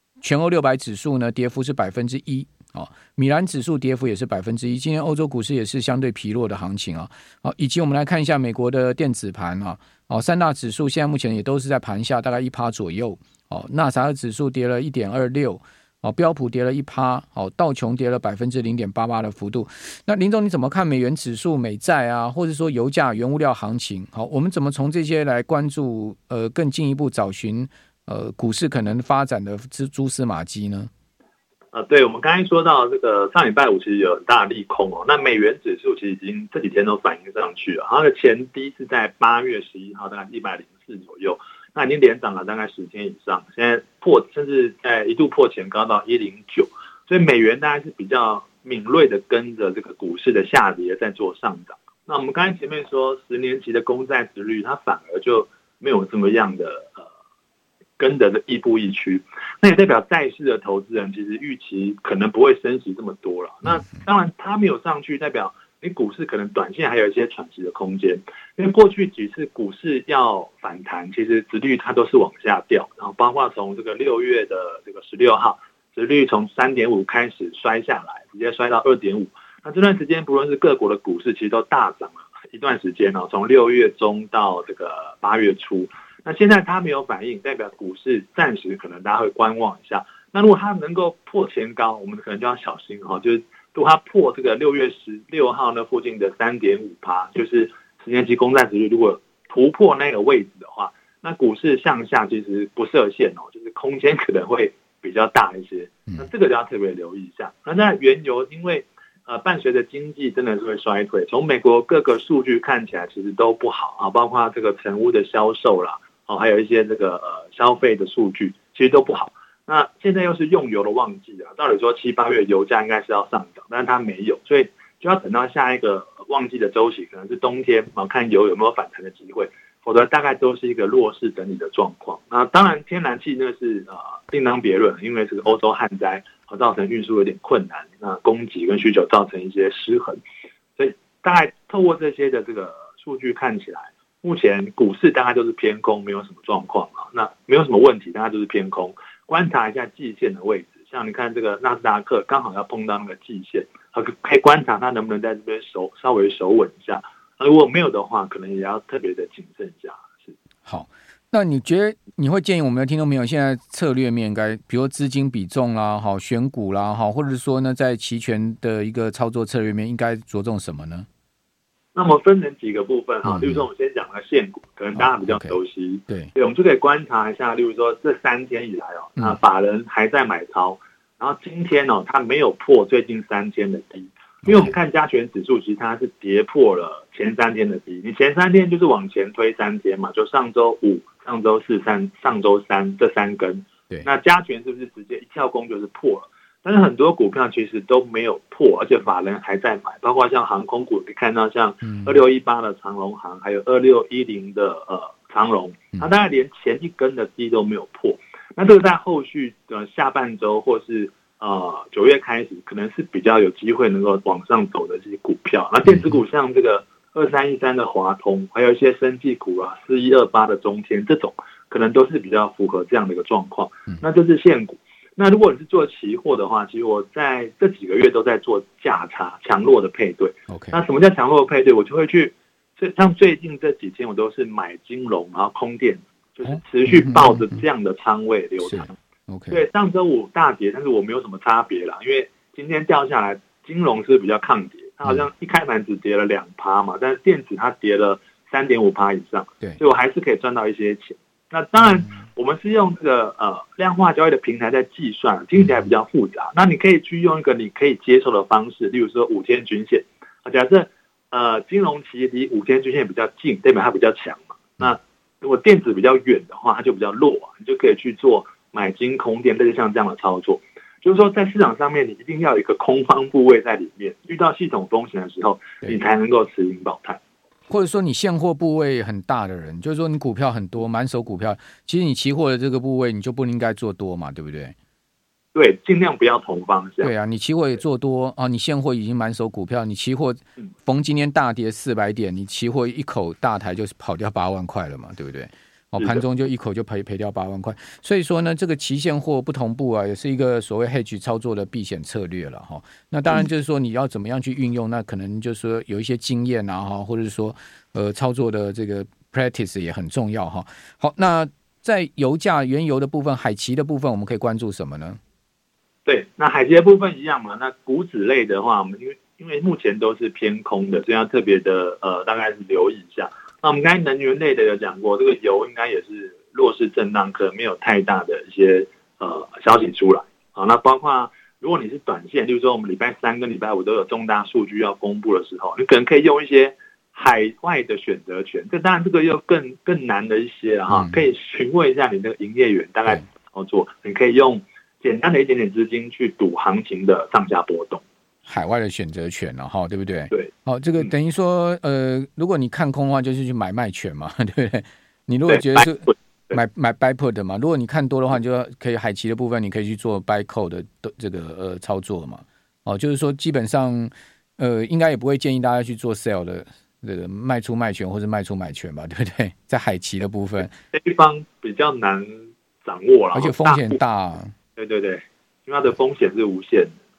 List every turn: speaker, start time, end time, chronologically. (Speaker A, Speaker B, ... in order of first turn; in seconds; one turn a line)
Speaker A: 0.2-30.9
Speaker B: 31.7-57.1
Speaker B: 58.0-140.2
Speaker B: 140.8-160.3
Speaker A: 160.7-171.1
Speaker B: 171.9-238.9
Speaker A: 173.2-173.6
Speaker A: 175.0-175.6
Speaker A: 184.4-184.8
Speaker A: 201.8-202.1
Speaker A: 230.5-230.8
Speaker A: 236.5-237.6
Speaker A: 238.6-239.6
Speaker B: 239.5-277.2
Speaker A: 277.7-284.8
Speaker B: 285.5-287.1
Speaker A: 287.0-315.2
Speaker B: 316.1-348.0
Speaker A: 340.9-341.2
Speaker A: 348.5-370.7
Speaker B: 350.3-351.1
Speaker B: 355.5-356.6
Speaker B: 370.9-374.0
Speaker A: 373.3-374.5
Speaker B: 374.8-377.0